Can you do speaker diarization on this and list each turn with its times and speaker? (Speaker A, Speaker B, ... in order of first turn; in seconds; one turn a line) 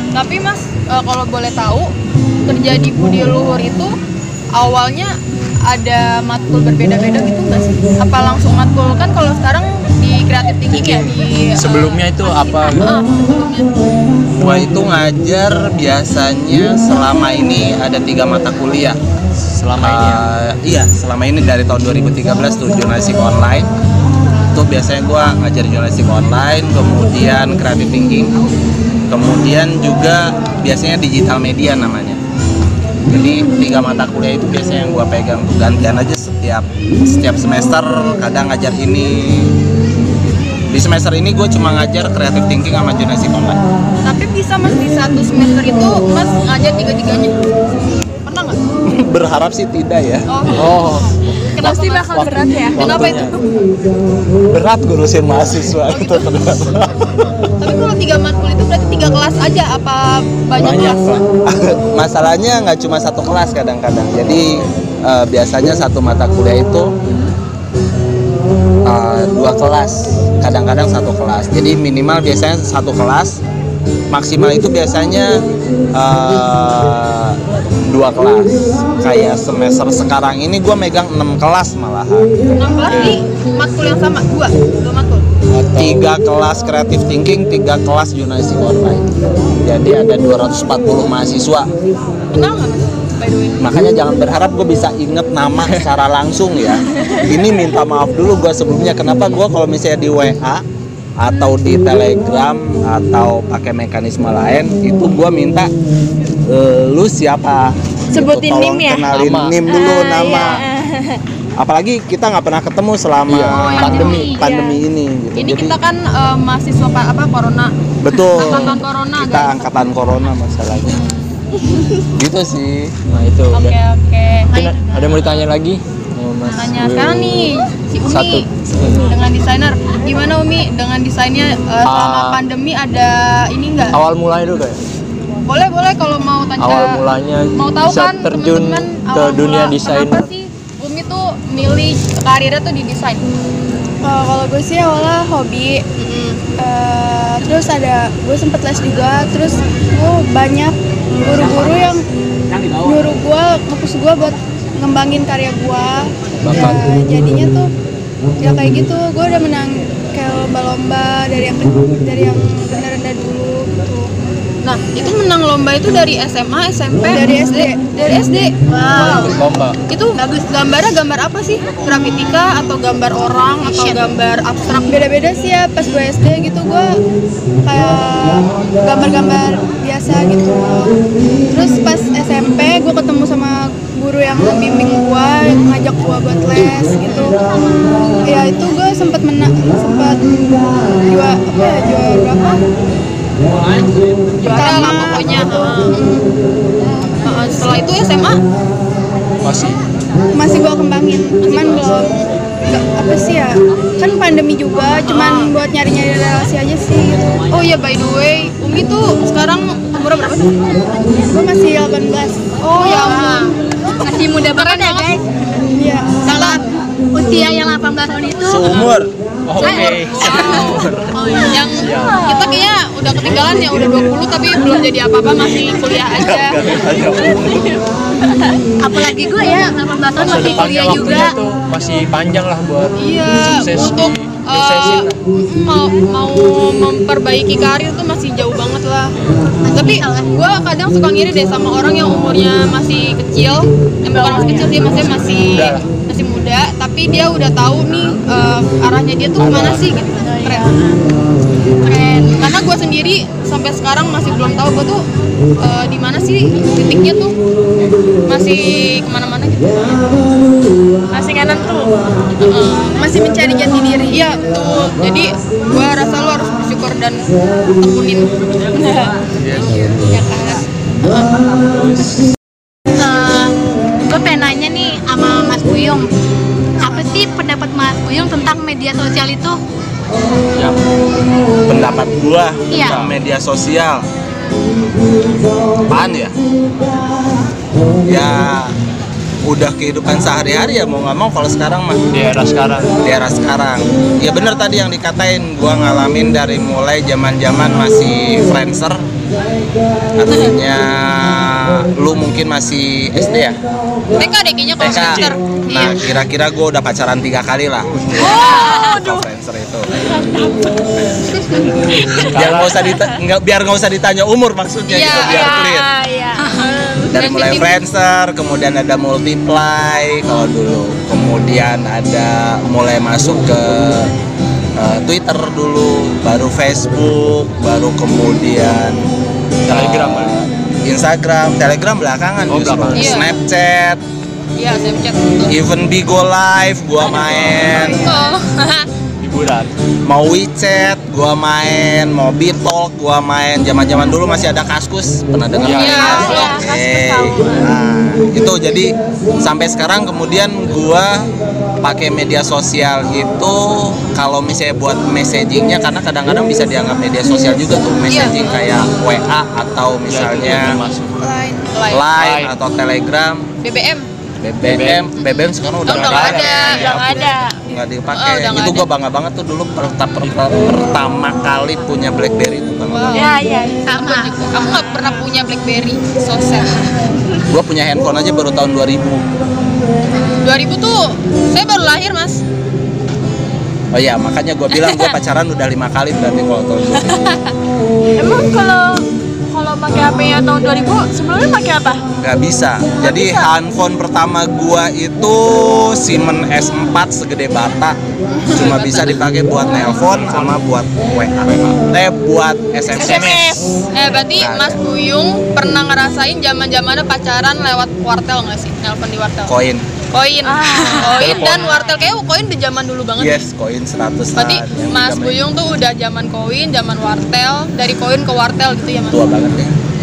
Speaker A: 0.1-1.9
Speaker A: 2.5-3.9
Speaker A: 4.5-13.8
Speaker B: 10.7-12.9
Speaker C: 14.4-19.0
Speaker B: 19.6-20.3
Speaker C: 19.8-23.7
Speaker C: 24.5-28.4
Speaker C: 29.1-32.2
Speaker C: 33.1-39.5
Speaker C: 40.7-43.6
Speaker A: 44.0-47.4
Speaker A: 48.2-48.6
Speaker C: 48.9-50.3
Speaker A: 50.3-50.9
Speaker B: 50.5-51.5
Speaker D: 51.5-53.1
Speaker A: 51.5-53.4
Speaker B: 52.7-53.4
Speaker C: 54.5-57.4
Speaker A: 55.7-56.3
Speaker A: 57.6-61.0
Speaker B: 60.6-61.2
Speaker C: 61.5-66.9
Speaker C: 68.8-73.4
Speaker C: 74.1-75.4
Speaker C: 75.9-82.3
Speaker A: 82.6-85.2
Speaker B: 82.9-83.2
Speaker B: 85.5-86.0
Speaker C: 85.7-91.7
Speaker A: 92.3-93.6
Speaker C: 93.6-100.6
Speaker C: 101.2-105.7
Speaker C: 106.5-110.6
Speaker D: 108.1-111.2
Speaker B: 109.1-109.6
Speaker C: 111.6-115.7
Speaker B: 113.3-114.4
Speaker A: 113.5-114.4
Speaker D: 114.4-114.8
Speaker A: 115.3-117.7
Speaker C: 118.0-121.0
Speaker A: 118.3-119.9
Speaker A: 120.9-121.3
Speaker C: 122.2-122.9
Speaker B: 123.1-123.8
Speaker A: 123.5-124.5
Speaker E: 124.5-125.2
Speaker B: 124.5-127.5
Speaker A: 126.5-133.9
Speaker B: 128.1-129.1
Speaker B: 131.8-132.4
Speaker B: 133.9-134.8
Speaker A: 135.4-137.0
Speaker B: 136.6-140.3
Speaker A: 137.6-143.3
Speaker F: 144.0-145.8
Speaker A: 146.0-146.4
Speaker F: 146.5-152.1
Speaker F: 152.8-157.7
Speaker B: 156.4-156.8
Speaker F: 158.4-164.0
Speaker A: 164.6-169.3
Speaker F: 167.0-167.8
Speaker E: 168.7-169.4
Speaker B: 168.9-169.8
Speaker A: 169.9-175.0
Speaker E: 170.1-170.5
Speaker E: 173.6-174.0
Speaker F: 174.9-176.9
Speaker F: 177.6-187.4
Speaker A: 187.1-187.4
Speaker F: 188.2-190.4
Speaker F: 191.0-192.6
Speaker A: 194.4-196.2
Speaker F: 194.4-196.1
Speaker A: 197.2-198.4
Speaker B: 199.4-199.8
Speaker F: 200.3-207.4
Speaker A: 201.4-201.8
Speaker A: 205.1-205.5
Speaker A: 207.5-210.5
Speaker F: 211.2-213.1
Speaker A: 212.7-213.4
Speaker E: 212.8-215.2
Speaker A: 214.5-215.1
Speaker F: 215.7-216.7
Speaker A: 216.2-216.7
Speaker E: 217.1-218.8
Speaker C: 218.4-219.1
Speaker B: 219.5-221.2
Speaker A: 219.6-220.8
Speaker E: 219.6-222.4
Speaker A: 221.4-226.7
Speaker B: 221.7-222.2
Speaker C: 226.1-227.8
Speaker E: 228.8-231.4
Speaker B: 230.2-235.2
Speaker A: 233.0-239.1
Speaker B: 239.1-239.5
Speaker E: 239.6-240.3
Speaker A: 239.7-250.7
Speaker E: 244.2-245.0
Speaker D: 244.3-244.6
Speaker B: 245.4-245.9
Speaker B: 249.4-249.8
Speaker F: 250.2-250.6
Speaker F: 251.8-252.4
Speaker A: 252.3-255.0
Speaker A: 255.6-257.4
Speaker A: 258.2-260.0
Speaker D: 261.1-261.9
Speaker A: 262.4-263.0
Speaker F: 262.9-264.2
Speaker A: 264.1-271.3
Speaker B: 269.3-269.9
Speaker B: 271.6-272.2
Speaker E: 273.0-276.1
Speaker E: 276.8-279.6
Speaker B: 280.5-280.8
Speaker C: 281.7-284.0
Speaker E: 282.7-282.9
Speaker B: 282.8-283.1
Speaker C: 285.9-286.3
Speaker C: 288.0-288.7
Speaker C: 289.4-292.0
Speaker B: 292.1-293.0
Speaker C: 293.0-299.0
Speaker C: 300.2-303.6
Speaker A: 304.1-306.1
Speaker C: 304.8-310.0
Speaker B: 304.8-305.3
Speaker B: 307.8-308.4
Speaker A: 308.2-309.0
Speaker E: 308.5-308.8
Speaker B: 309.9-312.9
Speaker A: 311.3-312.3
Speaker C: 312.3-315.9
Speaker A: 314.9-317.8
Speaker E: 316.4-316.7
Speaker C: 317.1-324.1
Speaker C: 324.8-329.1
Speaker C: 329.6-334.0
Speaker B: 329.6-330.3
Speaker B: 332.5-333.2
Speaker A: 332.9-333.3
Speaker A: 334.6-335.5
Speaker C: 335.5-338.1
Speaker B: 337.1-338.0
Speaker F: 337.7-338.4
Speaker A: 337.7-338.9
Speaker B: 339.2-339.7
Speaker C: 340.0-351.3
Speaker B: 345.6-346.4
Speaker A: 345.7-346.6
Speaker D: 346.0-347.7
Speaker C: 351.8-360.8
Speaker A: 358.1-358.7
Speaker B: 360.1-361.3
Speaker F: 361.2-361.8
Speaker A: 361.7-362.1
Speaker C: 361.9-363.5
Speaker B: 362.1-362.6
Speaker A: 363.6-364.1
Speaker C: 364.4-373.3
Speaker B: 364.6-365.0
Speaker B: 365.8-367.2
Speaker A: 365.9-367.4
Speaker D: 366.8-367.6
Speaker A: 368.1-368.9
Speaker A: 372.9-376.9
Speaker D: 373.2-373.9
Speaker E: 373.2-375.2
Speaker C: 377.5-379.2
Speaker A: 380.3-382.4
Speaker C: 383.9-387.1
Speaker A: 384.7-385.1
Speaker D: 388.2-392.0
Speaker C: 392.2-398.0
Speaker A: 398.3-399.6
Speaker C: 398.5-403.6
Speaker B: 399.8-400.6
Speaker B: 401.4-401.8
Speaker A: 402.9-409.5
Speaker C: 404.3-404.8
Speaker C: 409.4-409.9
Speaker A: 410.1-413.4
Speaker D: 410.4-411.3
Speaker B: 411.0-411.7
Speaker E: 411.3-412.1
Speaker C: 413.2-415.4
Speaker A: 414.3-419.3
Speaker C: 419.1-419.7